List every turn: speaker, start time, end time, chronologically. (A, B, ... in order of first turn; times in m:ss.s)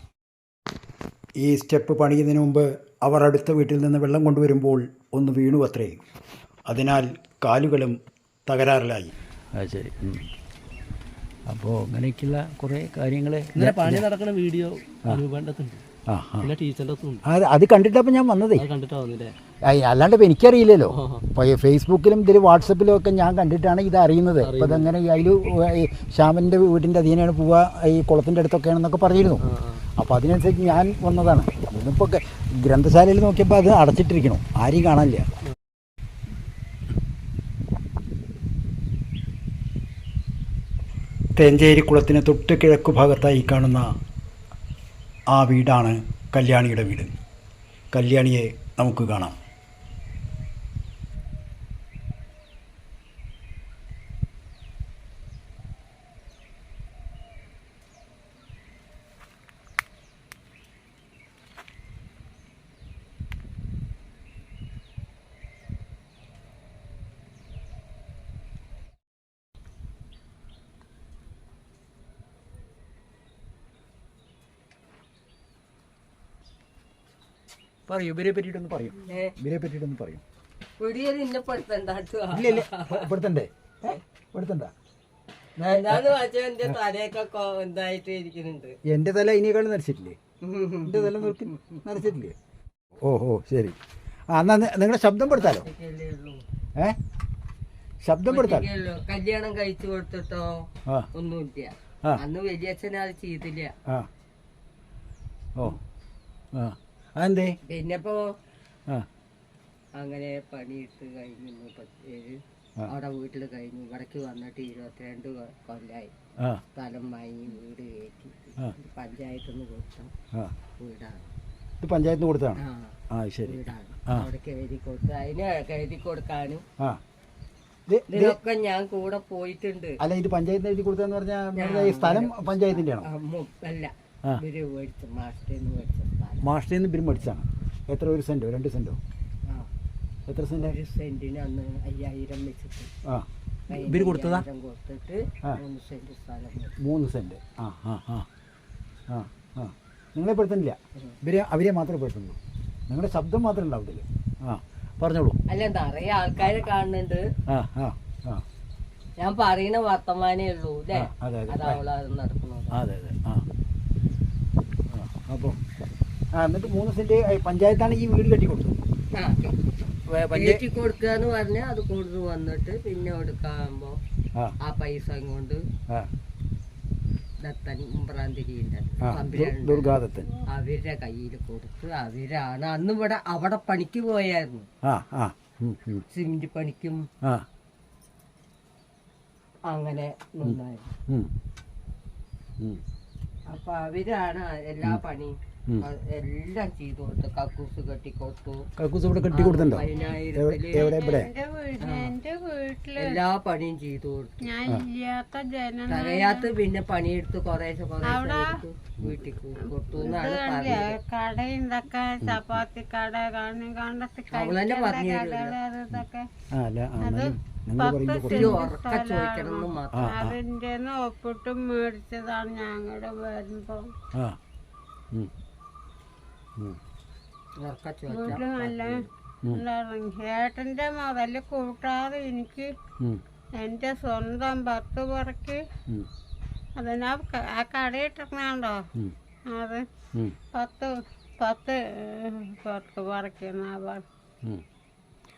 0:01.4-0:06.0 A
0:06.7-0:10.3 A
0:11.5-0:14.1 A
0:13.6-0:15.8 B
0:16.1-0:16.5 A
0:16.4-0:17.2 B
0:17.2-0:18.7 A
0:18.6-0:19.4 B
0:19.6-0:35.3 A
0:20.9-0:21.2 B
0:24.4-0:24.9 B
0:29.5-0:29.8 B
0:41.4-0:43.9 A
0:45.3-0:47.1 A
0:47.9-0:49.4 A
1:17.9-1:20.2 A
1:19.1-1:19.3 C
1:20.8-1:23.1 C
1:22.3-1:24.7 A
1:25.6-1:28.8 C
1:28.9-1:30.2 A
1:30.4-1:32.0 C
1:30.8-1:32.4 A
1:33.0-1:33.8 A
1:34.3-1:35.7 A
1:35.3-1:36.4 C
1:38.0-1:38.7 A
1:38.3-1:43.7 C
1:46.5-1:47.6 A
1:47.6-1:48.3 C
1:50.0-1:56.1 C
1:56.8-2:00.1 C
2:00.8-2:01.3 C
2:01.8-2:04.3 A
2:02.6-2:06.6 C
2:07.9-2:08.4 A
2:08.1-2:10.0 C
2:10.0-2:13.1 A
2:11.6-2:16.5 C
2:16.4-2:19.0 A
2:20.3-2:20.8 A
2:20.6-2:22.9 C
2:23.1-2:24.4 A
2:23.7-2:26.7 C
2:26.8-2:28.3 A
2:29.1-2:32.4 A
2:32.9-2:35.4 A
2:35.5-2:37.2 C
2:37.5-2:38.4 A
2:39.2-2:42.8 C
2:40.9-2:41.8 A
2:42.7-2:43.5 A
2:44.9-2:45.6 A
2:46.4-2:48.8 A
2:49.2-2:49.8 C
2:50.1-2:50.6 A
2:50.3-2:54.0 C
2:54.6-2:55.6 C
2:57.4-3:04.7 C
2:59.0-3:00.3 A
3:04.8-3:06.0 A
3:06.1-3:07.1 C
3:09.7-3:10.9 C
3:10.4-3:11.3 A
3:13.5-3:18.7 C
3:18.8-3:21.3 A
3:19.3-3:20.9 C
3:20.7-3:23.2 D
3:21.8-3:22.1 C
3:23.0-3:24.5 C
3:24.4-3:26.5 D
3:25.9-3:31.0 C
3:28.0-3:28.6 D
3:30.0-3:36.3 D
3:32.2-3:32.6 A
3:34.3-3:35.6 C
3:35.9-3:38.6 A
3:37.0-3:43.9 D
3:38.2-3:40.2 C
3:39.9-3:40.4 A
3:47.6-3:49.1 C
3:48.1-3:52.7 D
3:53.6-3:55.6 D
3:56.8-3:58.8 D
3:59.5-3:59.9 D
4:00.5-4:04.0 D